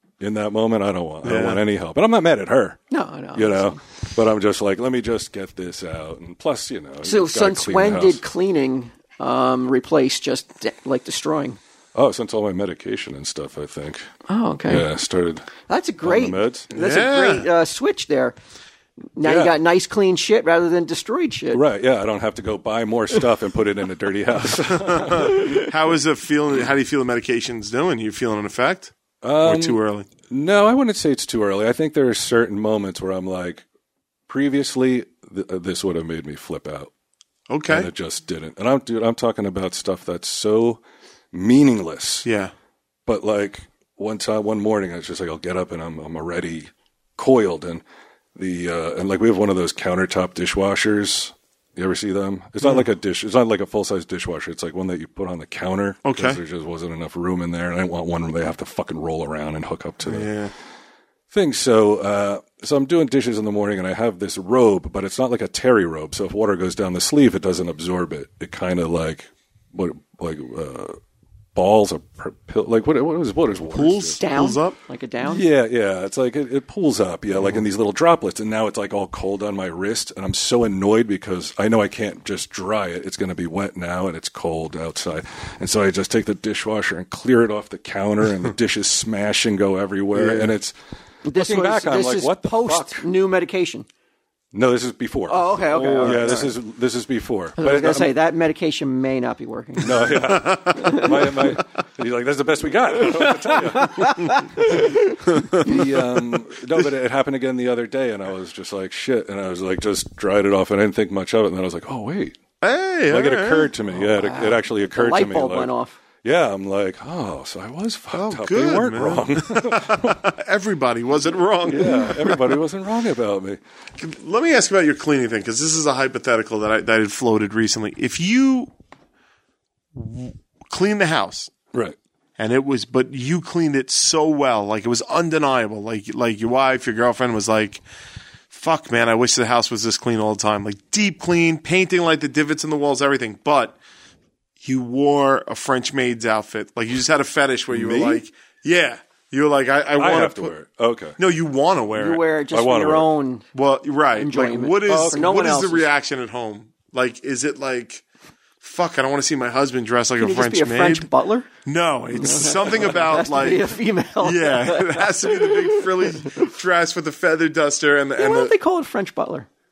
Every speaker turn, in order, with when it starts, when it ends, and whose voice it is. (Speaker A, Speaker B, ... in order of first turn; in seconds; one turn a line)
Speaker A: 0.2-2.8
Speaker B: 1.2-1.6
Speaker C: 2.9-3.8
Speaker A: 3.3-8.2
Speaker C: 7.0-11.6
Speaker A: 11.9-14.1
Speaker C: 14.3-14.9
Speaker A: 14.7-15.5
Speaker C: 15.7-18.4
Speaker A: 16.0-16.7
Speaker B: 16.7-17.5
Speaker C: 19.2-21.6
Speaker A: 19.2-19.6
Speaker A: 21.5-25.5
Speaker B: 24.9-30.1
Speaker C: 25.1-25.7
Speaker A: 29.2-33.6
Speaker A: 34.3-36.9
Speaker B: 37.5-37.9
Speaker A: 37.7-40.8
Speaker A: 41.3-42.3
Speaker B: 42.2-42.5
Speaker A: 43.1-47.8
Speaker A: 48.4-60.3
Speaker B: 56.0-56.4
Speaker B: 60.1-60.5
Speaker A: 61.3-71.0
Speaker A: 71.5-74.2
Speaker B: 73.7-74.8
Speaker C: 74.2-75.5
Speaker A: 75.2-90.8
Speaker B: 90.1-90.5
Speaker C: 91.2-93.9
Speaker A: 91.3-93.1
Speaker A: 94.5-98.1
Speaker C: 95.3-96.5
Speaker C: 97.6-101.4
Speaker A: 99.8-112.4
Speaker B: 100.2-100.9
Speaker C: 103.0-105.7
Speaker B: 105.3-105.8
Speaker B: 112.6-113.8
Speaker A: 113.1-115.7
Speaker C: 114.0-116.0
Speaker A: 116.2-120.2
Speaker B: 118.1-122.6
Speaker A: 121.7-123.6
Speaker B: 124.0-128.7
Speaker B: 129.9-131.5
Speaker B: 132.4-137.8
Speaker B: 138.5-143.8
Speaker B: 144.6-150.5
Speaker A: 147.7-148.2
Speaker A: 150.0-151.2
Speaker B: 151.2-152.2
Speaker C: 151.9-153.4
Speaker A: 152.5-153.1
Speaker B: 153.5-158.0
Speaker C: 154.2-155.9
Speaker A: 154.9-155.2
Speaker B: 158.6-161.1
Speaker C: 160.2-161.5
Speaker B: 161.6-168.6
Speaker C: 162.1-166.5
Speaker C: 168.2-169.5